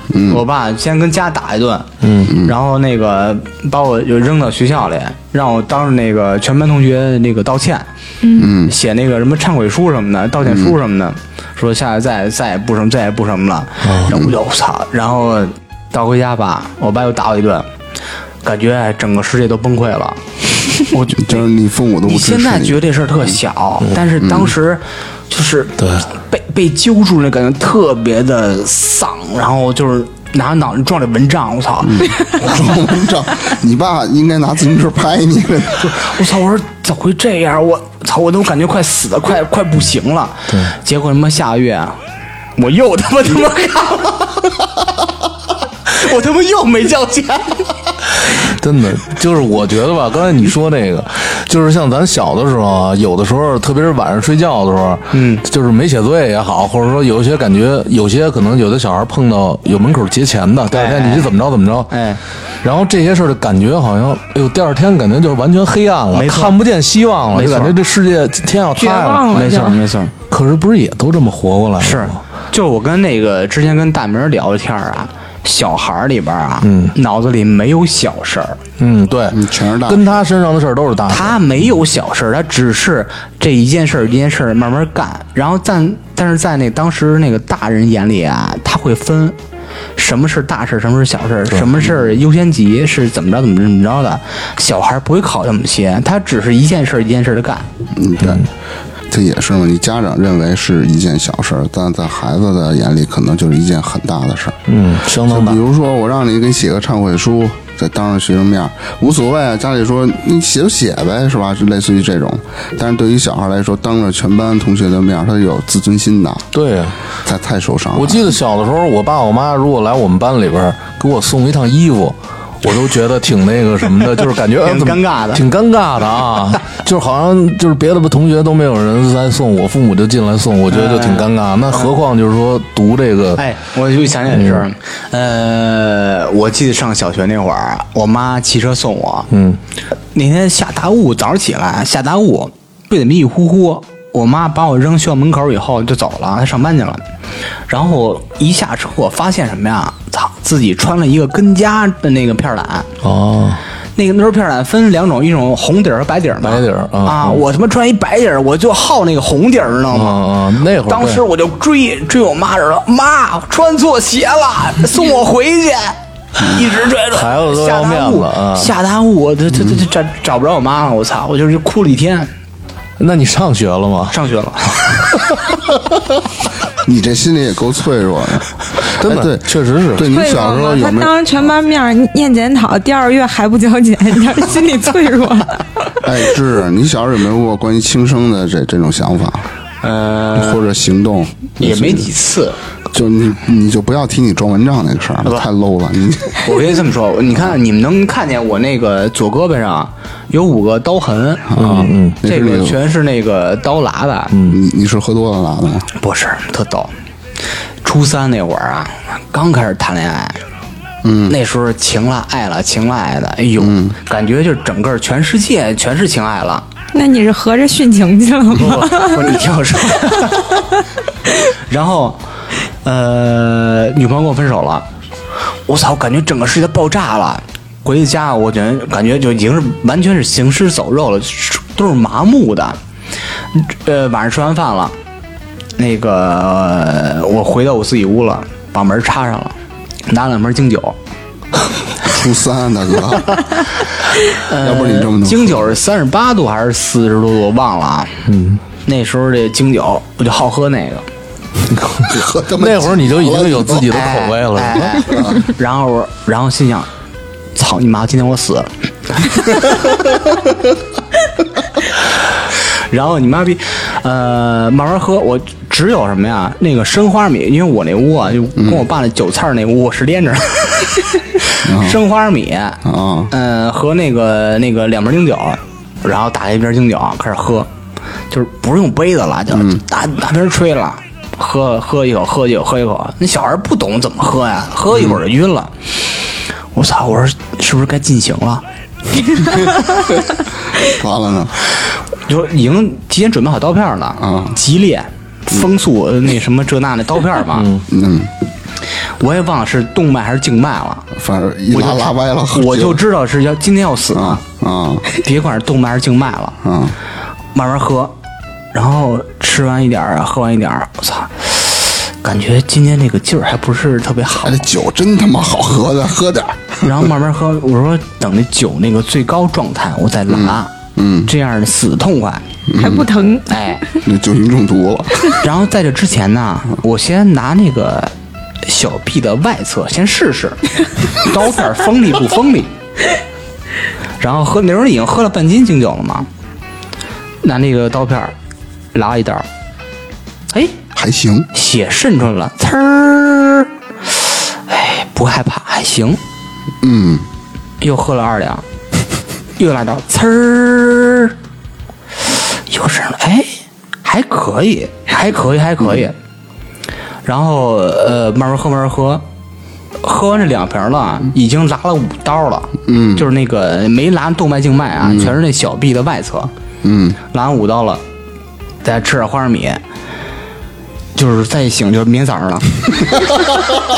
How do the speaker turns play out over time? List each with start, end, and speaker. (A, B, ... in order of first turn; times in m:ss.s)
0:00.1-0:00.4 A
0:00.3-0:07.9 B
0:02.0-0:02.3 C
0:02.3-0:02.5 A
0:08.2-0:08.5 D
0:08.4-0:08.7 A
0:08.6-0:17.7 B
0:13.8-0:14.2 C
0:18.4-0:21.5 B
0:21.2-0:22.8 A
0:22.0-0:32.2 B
0:24.2-0:24.5 A
0:25.8-0:26.1 C
0:31.8-0:36.0 A
0:35.9-0:42.0 B
0:42.6-0:44.7 B
0:45.9-0:47.8 B
0:48.3-1:01.9 C
0:55.1-0:55.4 B
1:00.7-1:01.3 B
1:01.9-1:02.2 B
1:02.6-1:09.3 C
1:06.1-1:06.6 B
1:07.3-1:07.8 B
1:08.8-1:09.8 D
1:09.3-1:10.1 B
1:10.3-1:12.2 C
1:11.8-1:18.6 B
1:16.6-1:16.9 C
1:18.8-1:21.4 C
1:19.3-1:20.2 A
1:21.1-1:29.4 B
1:30.0-1:37.7 B
1:37.9-1:38.4 A
1:39.1-1:44.6 A
1:44.7-1:45.6 C
1:45.3-1:56.5 A
1:56.5-1:57.0 C
1:57.2-1:58.3 A
1:58.0-2:13.4 C
2:04.6-2:05.4 B
2:10.7-2:11.9 B
2:13.4-2:19.3 B
2:14.3-2:14.6 C
2:19.3-2:19.6 C
2:20.1-2:27.0 B
2:27.7-2:32.9 B
2:33.0-2:33.6 C
2:34.0-2:40.2 B
2:36.4-2:37.4 C
2:39.9-2:41.2 C
2:40.9-2:52.3 B
2:47.1-2:48.7 C
2:53.0-2:54.2 C
2:54.1-2:55.3 B
2:56.8-3:01.5 A
2:59.0-3:00.1 C
3:00.0-3:05.7 D
3:06.0-3:09.4 A
3:09.8-3:10.6 B
3:10.4-3:12.1 A
3:11.6-3:12.6 B
3:12.9-3:16.5 A
3:16.4-3:21.6 B
3:21.5-3:22.8 A
3:21.6-3:22.2 C
3:22.2-3:24.4 B
3:24.3-3:24.6 C
3:24.5-3:25.9 A
3:26.0-3:26.9 B
3:27.8-3:30.4 B
3:31.0-3:31.3 A
3:31.3-3:36.7 B
3:33.6-3:34.0 A
3:36.9-3:39.4 D
3:38.6-3:40.7 B
3:41.7-3:42.2 B
3:42.8-3:44.9 B
3:45.7-3:52.8 B
3:53.5-3:55.0 B
3:55.8-3:59.6 B
4:00.1-4:01.0 B
4:02.0-4:03.4 A
4:04.3-4:08.2 B
4:04.6-4:05.7 A
4:08.3-4:08.6 C
4:08.8-4:11.1 B
4:11.8-4:15.1 C
4:12.0-4:13.9 A
4:13.9-4:16.9 B
4:15.1-4:15.4 A
4:17.6-4:19.9 B
4:22.9-4:37.7 B
4:28.6-4:28.8 A
4:31.6-4:32.0 A
4:32.8-4:33.3 A
4:38.3-4:48.6 B
4:39.5-4:39.8 A
4:50.8-4:51.6 A
4:52.3-4:57.7 B
4:54.2-4:54.6 A
4:57.6-4:57.8 C
4:57.9-4:58.3 A
4:59.2-5:01.1 B
5:01.1-5:03.0 A
5:01.7-5:04.4 B
5:04.1-5:05.0 A
5:05.1-5:06.6 B
5:06.6-5:07.0 A
5:07.5-5:08.1 B
5:08.7-5:14.6 B
5:14.4-5:17.1 A
5:16.8-5:20.7 B
5:20.3-5:21.3 A
5:21.3-5:22.5 B
5:22.7-5:23.1 A
5:22.8-5:24.0 D
5:23.5-5:23.9 B
5:24.0-5:25.4 A
5:25.4-5:32.7 B
5:34.2-5:36.3 B
5:37.4-5:38.4 B
5:38.9-5:39.5 B
5:40.5-5:40.8 B
5:40.9-5:41.5 A
5:41.5-5:46.2 B
5:46.8-5:47.3 A
5:47.8-5:48.6 B
5:49.6-5:51.4 B
5:52.3-5:56.2 B
5:57.2-5:59.2 B
6:00.0-6:06.5 B
6:02.9-6:03.2 A
6:05.0-6:05.3 A
6:06.8-6:07.2 A
6:07.3-6:08.0 B
6:08.8-6:09.8 B
6:11.2-6:13.3 B